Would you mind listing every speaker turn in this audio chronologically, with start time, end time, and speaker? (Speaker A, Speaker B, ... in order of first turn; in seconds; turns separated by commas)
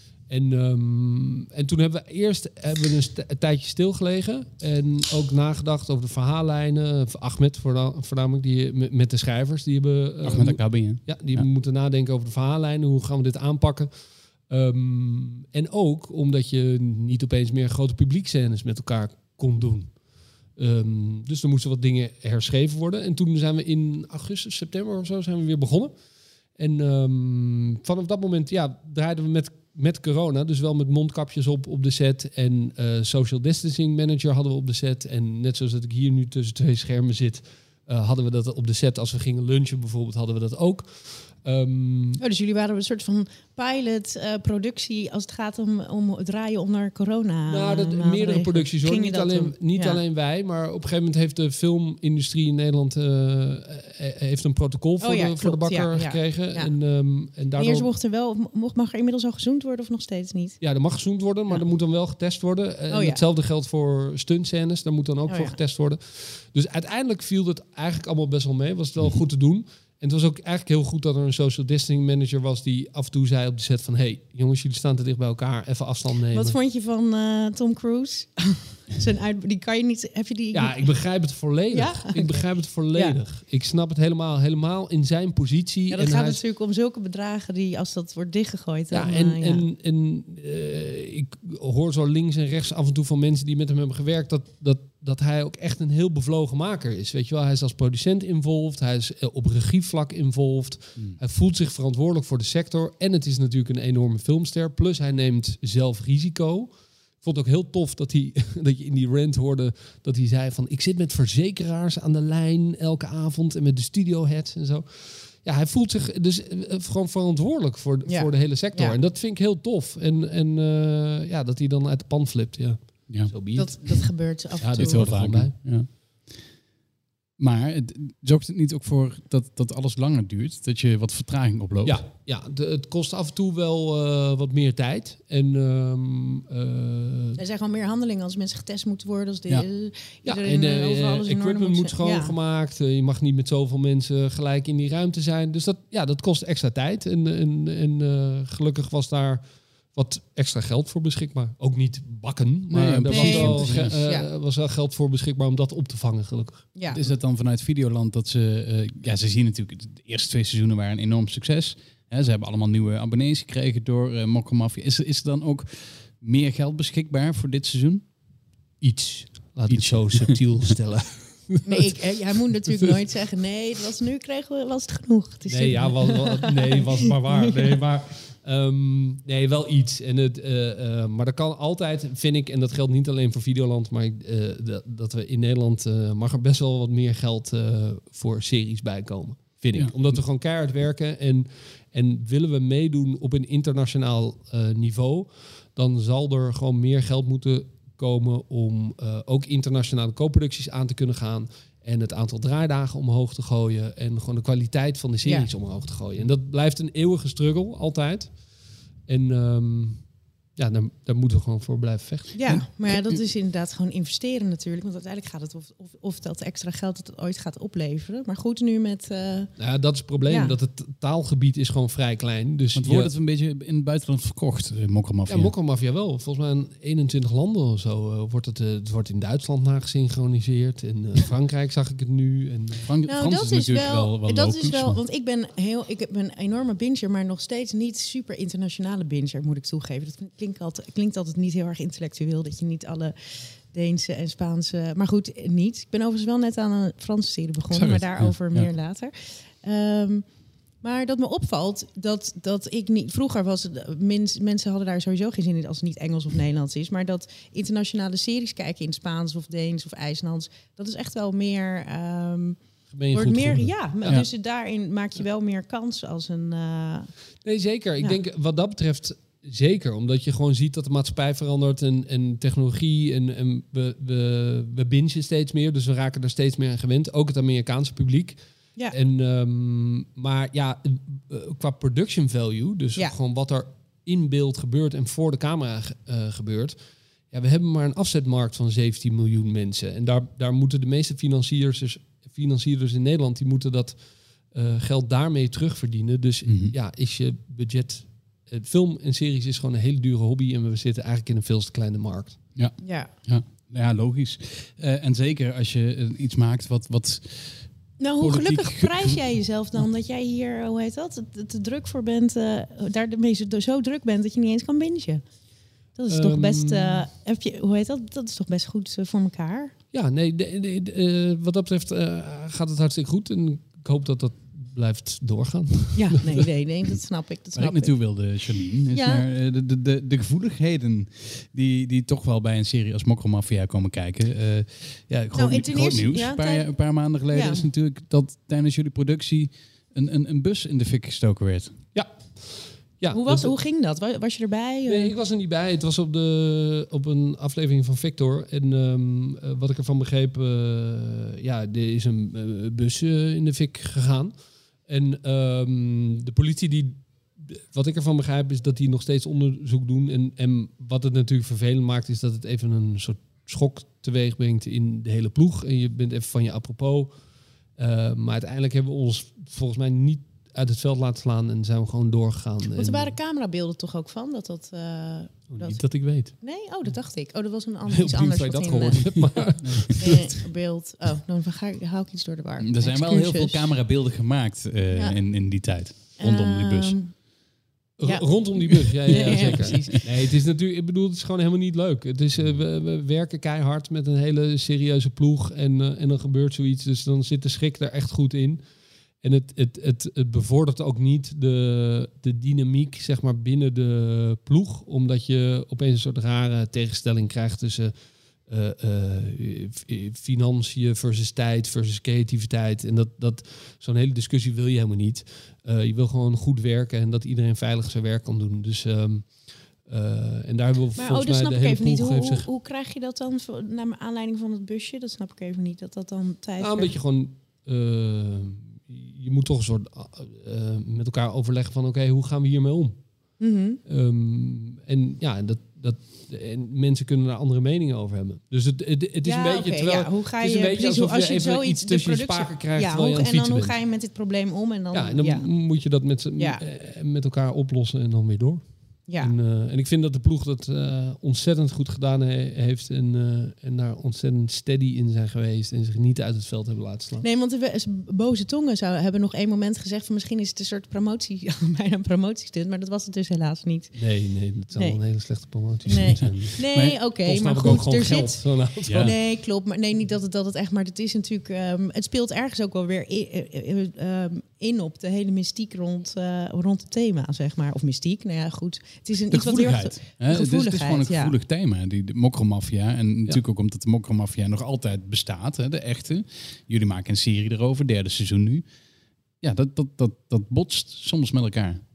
Speaker A: 0.3-13.9, Speaker B: 10.2-11.4, Speaker A: 14.5-20.0, Speaker A: 20.6-25.9, Speaker A: 26.6-42.2, Speaker C: 42.2-50.0, Speaker A: 47.5-57.9, Speaker C: 55.0-56.7, Speaker C: 57.6-60.6, Speaker A: 60.6-76.6, Speaker C: 62.9-63.2, Speaker C: 65.3-65.6, Speaker C: 76.3-80.9, Speaker A: 80.5-86.4, Speaker C: 81.7-83.2, Speaker C: 85.9-89.6, Speaker A: 88.9-123.9, Speaker C: 118.1-119.0, Speaker C: 123.5-125.1, Speaker A: 124.6-125.6, Speaker B: 124.7-126.5, Speaker B: 127.4-132.0, Speaker A: 131.8-137.4, Speaker C: 137.4-142.3, Speaker A: 140.2-149.4, Speaker A: 149.9-156.7, Speaker B: 152.7-153.9, Speaker C: 153.1-154.3, Speaker B: 156.9-168.0, Speaker A: 168.8-172.0, Speaker B: 169.7-170.6, Speaker C: 171.7-177.1, Speaker A: 175.5-208.4, Speaker C: 205.2-205.5, Speaker A: 209.1-212.3, Speaker C: 212.3-219.5, Speaker B: 212.5-213.2, Speaker A: 219.6-223.1, Speaker C: 220.3-220.6, Speaker B: 222.8-225.5, Speaker A: 225.3-232.9, Speaker B: 232.8-235.0, Speaker C: 233.1-250.2, Speaker B: 247.7-248.7, Speaker C: 250.8-262.6, Speaker A: 262.9-264.2, Speaker C: 263.1-267.1, Speaker A: 267.4-286.8, Speaker A: 287.3-294.0, Speaker A: 294.5-302.4, Speaker B: 296.5-296.7, Speaker B: 302.6-309.2, Speaker C: 302.8-303.1, Speaker C: 308.0-315.2, Speaker C: 315.9-319.8, Speaker A: 316.1-317.1, Speaker A: 319.9-326.4, Speaker C: 325.9-327.9, Speaker B: 327.6-341.8, Speaker C: 328.9-329.2, Speaker C: 335.3-336.7, Speaker C: 337.3-337.6, Speaker A: 341.9-343.5, Speaker C: 343.1-345.1, Speaker A: 344.9-354.3, Speaker A: 354.9-367.1, Speaker A: 367.8-373.1, Speaker C: 372.8-379.1, Speaker A: 375.5-376.3, Speaker A: 377.9-380.2, Speaker B: 379.6-380.0, Speaker C: 380.0-383.6, Speaker B: 382.6-387.0, Speaker C: 384.9-385.2, Speaker C: 386.2-387.2, Speaker A: 388.0-398.6, Speaker C: 388.0-390.1, Speaker B: 389.1-390.0, Speaker A: 399.2-407.9, Speaker A: 408.5-422.5, Speaker C: 421.0-426.9, Speaker A: 426.6-433.0, Speaker C: 433.4-433.8, Speaker A: 433.9-443.8, Speaker C: 439.2-445.5, Speaker A: 444.9-457.2, Speaker C: 449.1-449.4, Speaker C: 457.2-464.0, Speaker A: 463.9-466.6, Speaker C: 464.7-465.0, Speaker C: 465.9-481.3, Speaker B: 466.6-467.0, Speaker A: 467.2-469.1, Speaker B: 468.9-469.1, Speaker B: 479.3-488.6, Speaker B: 489.4-491.8